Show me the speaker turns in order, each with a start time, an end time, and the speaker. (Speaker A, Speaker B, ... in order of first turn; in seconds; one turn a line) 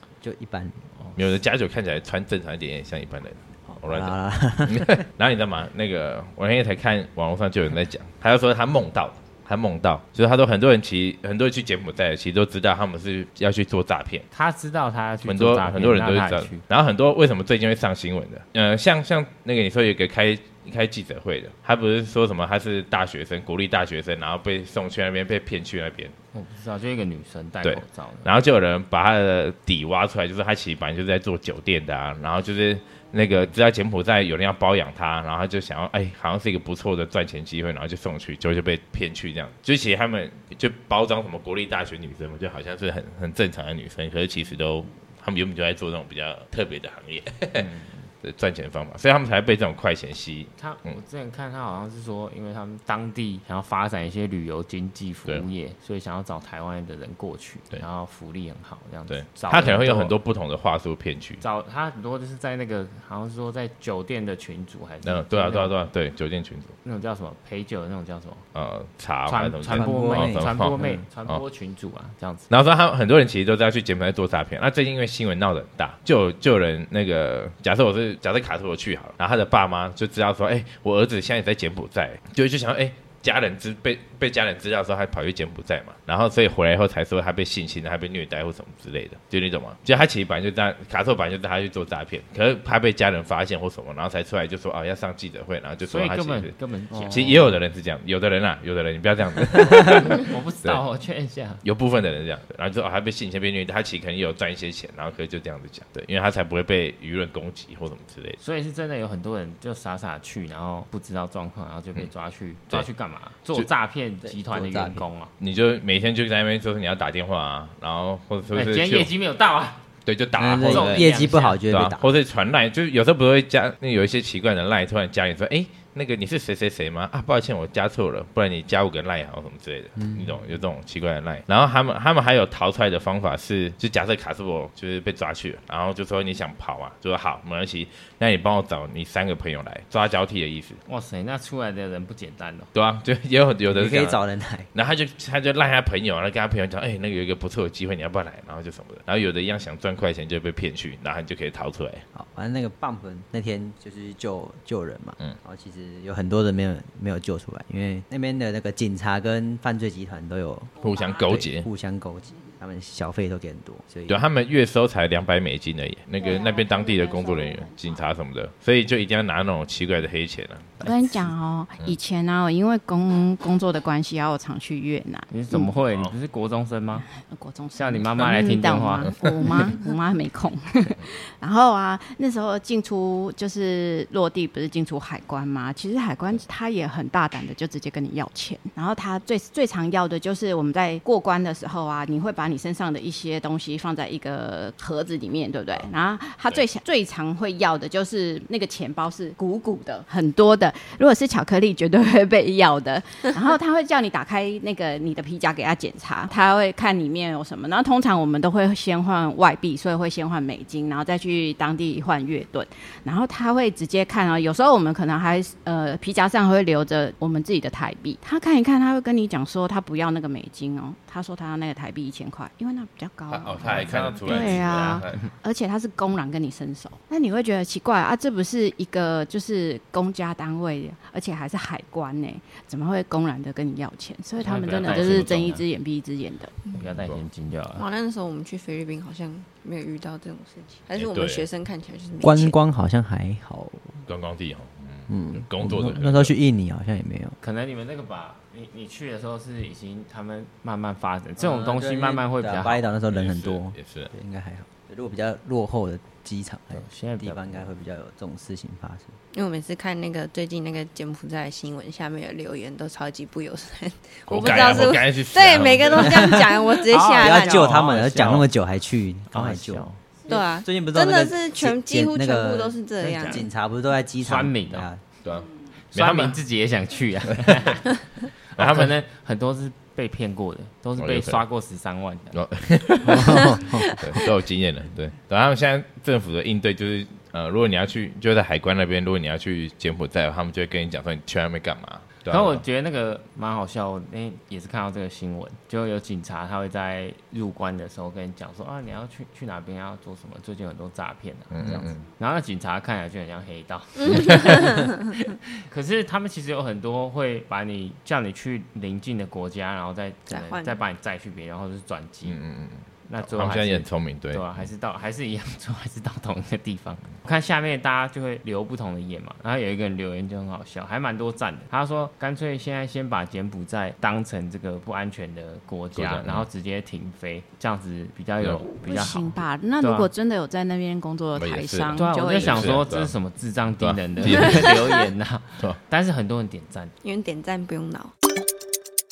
Speaker A: 0.2-0.8
Speaker B: 0.9-1.2
Speaker C: 1.2-14.3
Speaker A: 3.7-5.0
Speaker B: 14.3-16.6
Speaker C: 15.2-26.1
Speaker B: 26.3-28.3
Speaker C: 27.6-47.7
Speaker B: 47.5-48.1
Speaker C: 48.2-51.0
Speaker B: 50.6-60.1
Speaker C: 59.1-61.4
Speaker B: 61.4-65.7
Speaker C: 65.0-66.8
Speaker B: 66.8-68.4
Speaker C: 68.5-71.4
Speaker B: 69.3-72.5
Speaker A: 69.7-71.0
Speaker C: 72.5-100.8
Speaker B: 95.9-97.5
Speaker B: 99.9-101.6
Speaker C: 101.6-108.4
Speaker B: 108.4-115.3
Speaker A: 114.2-115.0
Speaker C: 115.4-119.1
Speaker B: 118.5-119.8
Speaker C: 120.1-140.8
Speaker A: 120.4-122.0
Speaker B: 120.6-121.6
Speaker A: 130.0-130.3
Speaker B: 140.9-142.7
Speaker C: 142.7-144.2
Speaker A: 143.7-144.7
Speaker C: 144.7-152.0
Speaker A: 152.1-164.2
Speaker C: 160.8-161.7
Speaker C: 164.1-170.9
Speaker D: 166.2-168.0
Speaker D: 170.8-175.7
Speaker B: 175.3-177.1
Speaker D: 177.2-236.6
Speaker B: 177.8-179.3
Speaker C: 223.3-225.2
Speaker B: 223.7-225.3
Speaker B: 234.4-235.6
Speaker C: 234.7-235.5
Speaker B: 236.7-237.9
Speaker E: 237.8-242.6
Speaker C: 241.0-241.5
Speaker A: 242.2-244.0
Speaker C: 244.1-246.3
Speaker A: 245.1-247.4
Speaker B: 247.4-252.8
Speaker A: 251.4-259.1
Speaker C: 253.1-254.1
Speaker B: 256.8-257.7
Speaker E: 259.3-267.7
Speaker C: 264.3-266.3
Speaker A: 266.0-266.6
Speaker B: 266.9-268.5
Speaker A: 267.2-275.0
Speaker B: 269.3-270.0
Speaker E: 270.3-273.4
Speaker B: 273.1-273.4
Speaker B: 274.2-274.9
Speaker C: 275.2-276.4
Speaker B: 275.9-277.9
Speaker B: 278.5-282.4
Speaker C: 278.6-278.9
Speaker C: 281.0-281.4
Speaker C: 282.3-292.6
Speaker A: 283.0-283.9
Speaker B: 292.3-304.9
Speaker C: 301.5-302.0
Speaker E: 304.0-305.0
Speaker B: 305.6-312.4
Speaker E: 310.3-310.8
Speaker C: 312.2-314.4
Speaker B: 313.1-330.1
Speaker C: 326.0-326.5
Speaker D: 328.8-332.8
Speaker C: 331.4-333.1
Speaker B: 331.9-336.9
Speaker C: 333.8-334.7
Speaker E: 337.0-338.1